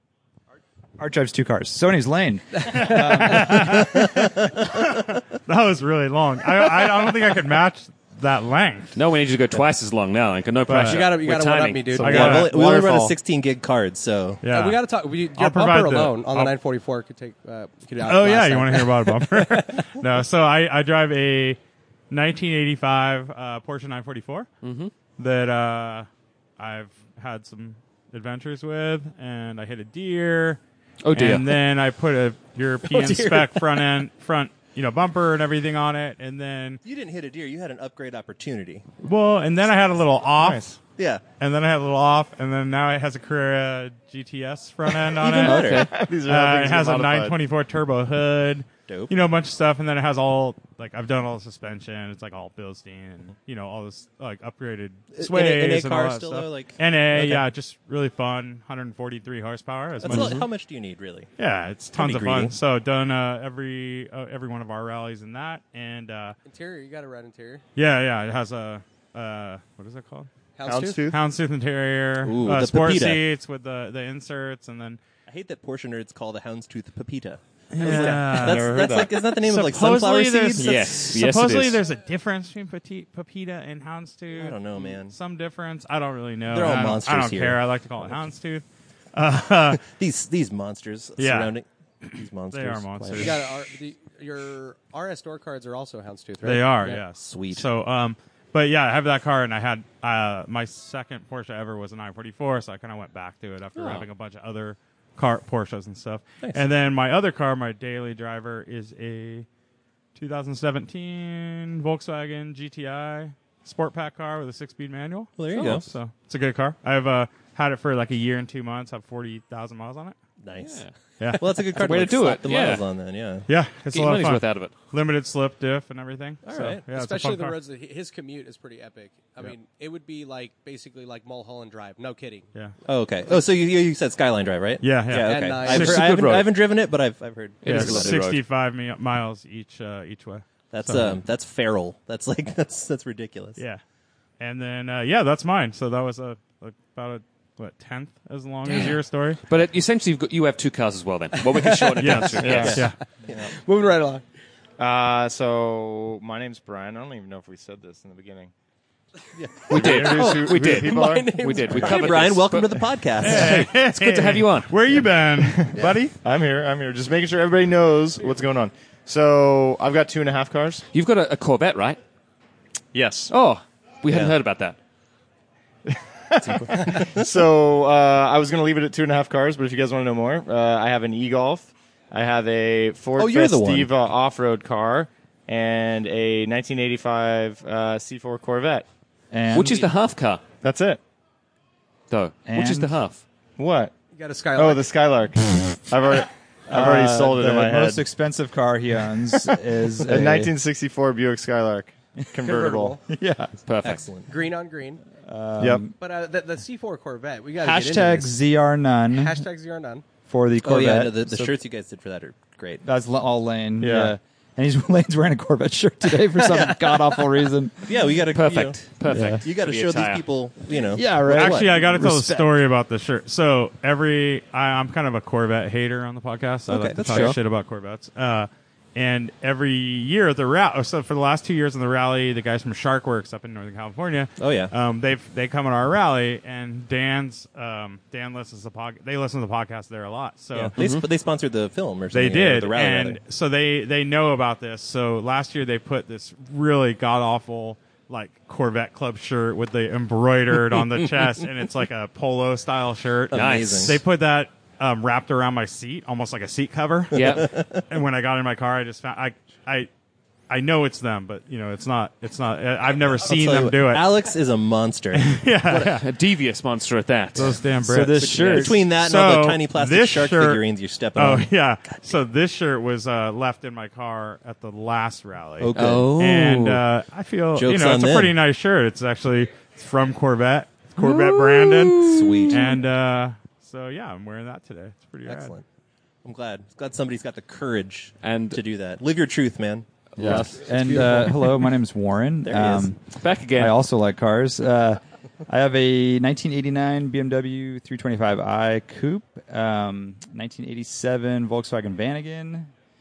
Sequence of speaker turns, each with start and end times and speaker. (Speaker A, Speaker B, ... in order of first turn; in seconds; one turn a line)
Speaker A: 1.0-4.0
Speaker B: 2.6-3.4
Speaker C: 2.8-9.0
Speaker D: 8.9-12.3
Speaker C: 10.7-11.2
Speaker B: 10.8-12.3
Speaker C: 12.0-12.6
Speaker E: 12.0-14.4
Speaker F: 12.1-13.2
Speaker C: 14.4-14.8
Speaker B: 14.5-19.8
Speaker C: 15.3-16.5
Speaker C: 18.0-21.6
Speaker C: 22.1-24.5
Speaker D: 24.6-24.9
Speaker C: 25.1-26.1
Speaker C: 26.6-30.6
Speaker D: 31.0-31.6
Speaker C: 31.1-36.8
Speaker B: 33.1-33.4
Speaker E: 36.8-38.9
Speaker C: 39.0-40.6
Speaker F: 40.4-40.8
Speaker E: 41.0-41.2
Speaker C: 41.4-60.4
Speaker F: 44.9-47.4
Speaker E: 45.2-45.9
Speaker D: 45.4-45.9
Speaker E: 55.1-57.4
Speaker E: 60.0-61.3
Speaker D: 60.1-60.5
Speaker C: 61.4-66.4
Speaker E: 62.0-62.5
Speaker B: 66.5-67.6
Speaker C: 67.8-70.3
Speaker B: 70.6-71.0
Speaker F: 70.7-71.2
Speaker C: 71.1-75.0
Speaker E: 72.2-73.2
Speaker E: 75.3-81.0
Speaker C: 77.7-89.8
Speaker F: 77.8-79.1
Speaker D: 80.6-81.8
Speaker E: 84.3-85.2
Speaker E: 86.5-87.6
Speaker E: 89.8-93.4
Speaker C: 91.2-91.5
Speaker C: 92.1-93.4
Speaker B: 93.1-97.0
Speaker C: 96.4-109.5
Speaker E: 97.2-97.7
Speaker D: 103.8-104.0
Speaker C: 110.2-120.2
Speaker E: 115.4-115.9
Speaker D: 115.5-115.8
Speaker E: 120.4-123.5
Speaker D: 120.6-122.9
Speaker C: 121.2-121.4
Speaker C: 123.5-127.6
Speaker D: 123.9-124.8
Speaker E: 126.5-126.8
Speaker B: 126.9-132.5
Speaker E: 132.9-138.2
Speaker C: 134.8-136.1
Speaker B: 135.2-136.0
Speaker D: 135.8-136.5
Speaker D: 137.6-138.4
Speaker C: 137.7-141.2
Speaker E: 140.7-143.6
Speaker C: 144.4-149.4
Speaker D: 149.5-152.9
Speaker B: 151.3-154.2
Speaker C: 152.0-153.0
Speaker F: 152.4-152.8
Speaker E: 152.5-153.5
Speaker F: 154.8-158.5
Speaker E: 159.4-160.5
Speaker F: 159.7-161.9
Speaker D: 159.7-164.9
Speaker C: 159.8-160.3
Speaker B: 160.3-162.2
Speaker E: 161.8-163.7
Speaker C: 163.2-166.2
Speaker F: 165.3-170.9
Speaker D: 170.9-172.0
Speaker F: 172.9-173.3
Speaker D: 173.3-174.8
Speaker F: 175.9-188.9
Speaker E: 176.4-177.3
Speaker E: 183.2-183.9
Speaker A: 189.3-189.9
Speaker D: 189.5-190.4
Speaker F: 190.6-191.0
Speaker D: 192.1-193.2
Speaker A: 192.5-193.0
Speaker F: 193.6-193.9
Speaker B: 194.1-194.9
Speaker F: 194.6-198.0
Speaker A: 196.7-200.5
Speaker F: 199.4-203.0
Speaker A: 202.2-203.6
Speaker B: 202.5-203.0
Speaker D: 203.7-204.1
Speaker E: 203.8-204.3
Speaker B: 204.3-205.0
Speaker A: 205.2-205.9
Speaker B: 206.0-208.4
Speaker A: 207.6-209.4
Speaker B: 209.1-210.0
Speaker A: 210.3-211.5
Speaker E: 210.6-212.8
Speaker A: 212.8-217.9
Speaker F: 213.8-214.1
Speaker B: 216.4-217.2
Speaker E: 217.8-221.7
Speaker D: 218.3-220.2
Speaker A: 219.1-219.4
Speaker A: 220.9-222.5
Speaker C: 221.3-240.8
Speaker E: 226.7-227.4
Speaker E: 234.4-234.7
Speaker E: 240.6-243.2
Speaker D: 240.8-241.1
Speaker C: 242.1-259.9
Speaker E: 253.3-254.0
Speaker D: 253.3-254.0
Speaker D: 257.1-257.5
Speaker E: 257.1-257.8
Speaker C: 260.5-264.1
Speaker E: 263.2-265.9
Speaker C: 265.1-266.0
Speaker D: 265.7-268.6
Speaker C: 267.4-270.6
Speaker A: 267.9-268.8
Speaker E: 268.2-272.1
Speaker C: 271.2-285.6
Speaker E: 275.6-276.1
Speaker D: 275.8-276.8
Speaker E: 277.6-278.3
Speaker D: 281.0-282.7
Speaker E: 282.0-282.8
Speaker E: 285.3-285.6
Speaker E: 286.2-290.4
Speaker D: 288.2-288.6
Speaker D: 290.1-291.7
Speaker A: 290.2-293.0
Speaker E: 292.4-292.9
Speaker D: 293.1-293.8
Speaker A: 293.5-302.7